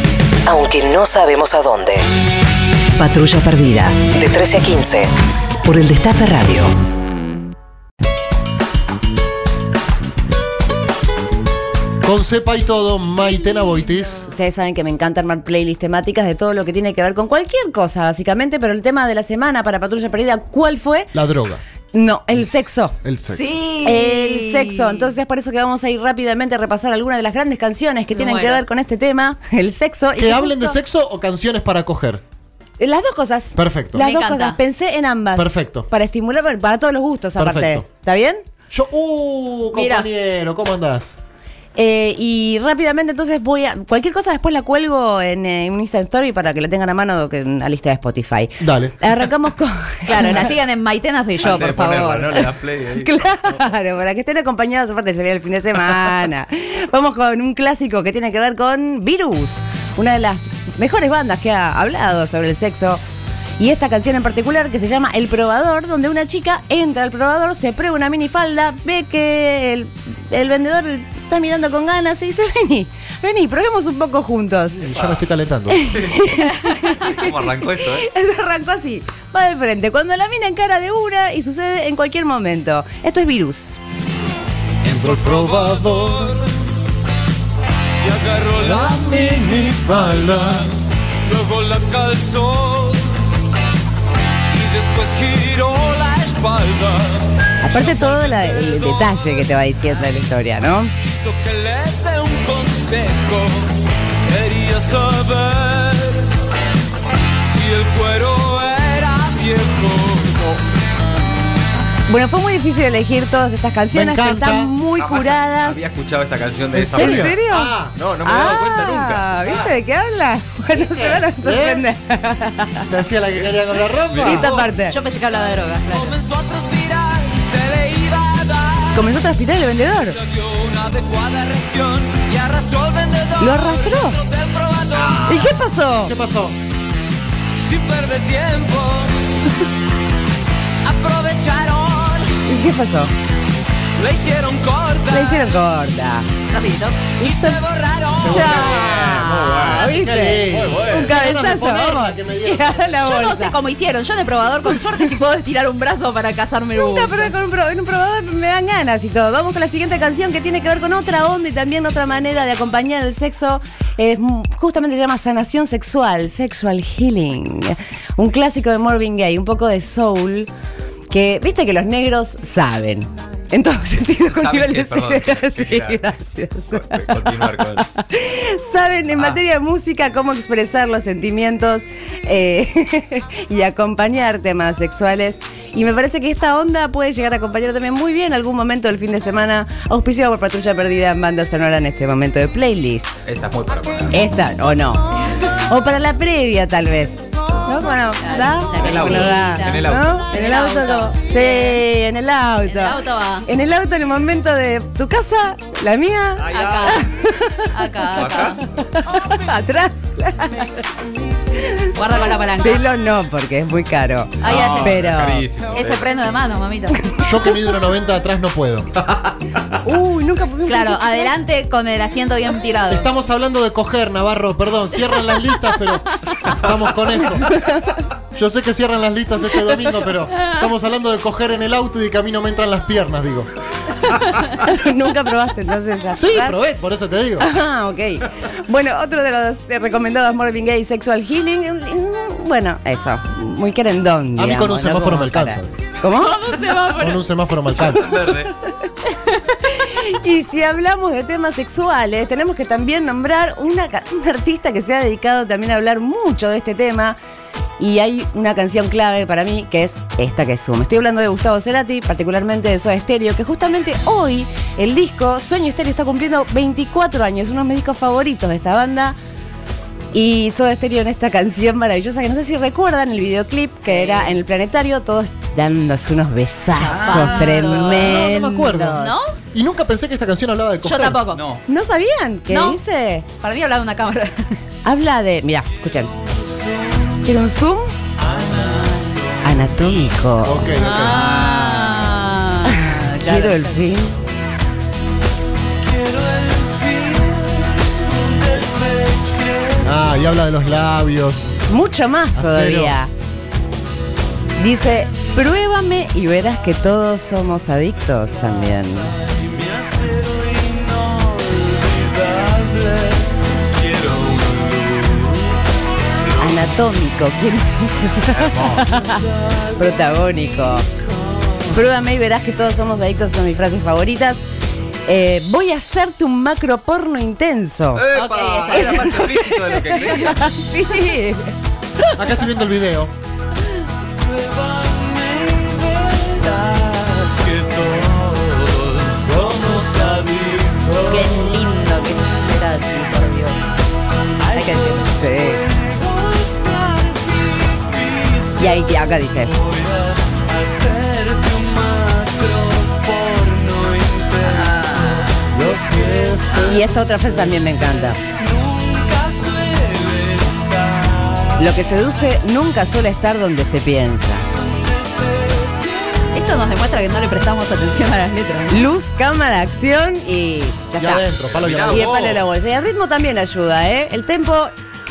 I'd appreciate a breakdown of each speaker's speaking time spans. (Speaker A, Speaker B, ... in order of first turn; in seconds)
Speaker A: 0.5-2.0, 3.0-5.1, 5.6-6.8
Speaker B: 12.0-14.3, 21.1-21.6, 23.0-23.6, 30.2-32.2, 33.6-34.0, 35.4-35.9, 37.4-37.9, 38.7-41.2, 48.6-49.0, 74.8-75.9, 84.8-86.4, 88.6-90.7, 113.9-114.7, 116.7-118.0, 120.7-121.8, 122.9-124.6, 136.0-136.6, 148.1-148.8, 149.8-153.1, 217.2-218.9, 222.9-227.6, 228.3-233.5, 236.2-237.5, 244.4-245.8, 246.9-248.3, 277.9-279.0, 279.5-281.2, 290.4-291.4, 299.8-301.5, 302.4-303.0, 332.1-333.1, 355.5-356.9, 371.0-372.3
Speaker C: 14.3-21.1, 21.9-23.0, 23.8-30.8, 32.8-38.5, 41.8-50.5, 52.4-63.0, 63.6-74.9, 75.7-83.8, 97.6-100.9, 112.1-115.8, 116.9-122.9, 124.2-125.0, 128.9-130.2, 133.4-134.2, 135.2-136.1, 142.5-143.1, 145.1-146.3, 147.2-147.6, 148.2-153.6, 156.7-170.5, 171.1-193.2, 194.1-210.9, 211.5-215.5, 217.0-217.8, 219.8-221.4, 234.4-236.6, 237.4-246.8, 248.1-248.5, 249.3-257.2, 257.8-269.2, 270.1-279.2, 281.7-283.3, 284.9-286.1, 287.1-288.0, 289.4-290.7, 292.7-294.2, 301.7-303.1, 304.6-309.1, 316.4-320.9, 321.7-324.4, 325.1-328.1, 328.6-331.5, 344.9-345.6, 348.6-349.5, 356.6-358.2, 361.6-364.5, 368.7-371.3, 371.9-374.7
Speaker D: 23.4-24.3, 28.2-28.5, 34.0-34.6, 39.8-40.1, 50.1-52.3, 124.8-126.2, 146.5-147.0, 153.1-157.3, 198.2-201.7, 202.7-203.5, 206.4-207.0, 207.7-208.6, 211.9-212.8, 214.4-215.0, 215.7-217.0, 220.7-223.1, 246.5-247.0, 277.0-277.9, 279.0-279.3, 280.8-281.4, 282.5-282.8, 283.4-284.6, 290.8-293.4, 328.0-330.1, 341.1-343.6, 366.3-368.8
Speaker E: 23.6-24.6, 51.4-53.6, 76.1-78.0, 115.0-117.3, 118.0-119.5, 148.7-149.9, 150.5-150.9, 174.2-176.0, 176.7-177.8, 193.2-194.2, 198.8-200.3, 206.5-207.0, 208.2-208.6, 214.4-216.1, 247.9-248.5, 276.9-278.1, 281.0-281.6, 291.2-292.4, 328.1-330.3, 371.5-372.3
Speaker F: 84.9-86.5, 88.0-93.2, 94.5-99.4, 101.0-106.3, 107.4-110.7, 124.2-124.5, 125.9-128.9, 130.2-135.5, 137.6-139.3, 140.8-142.4, 144.0-145.5, 147.2-148.6, 288.2-289.4, 295.8-299.9, 309.4-315.6, 316.2-316.5, 318.7-319.6, 320.9-321.7, 334.2-341.5, 344.4-348.7, 349.5-356.8, 358.3-361.6, 364.9-365.9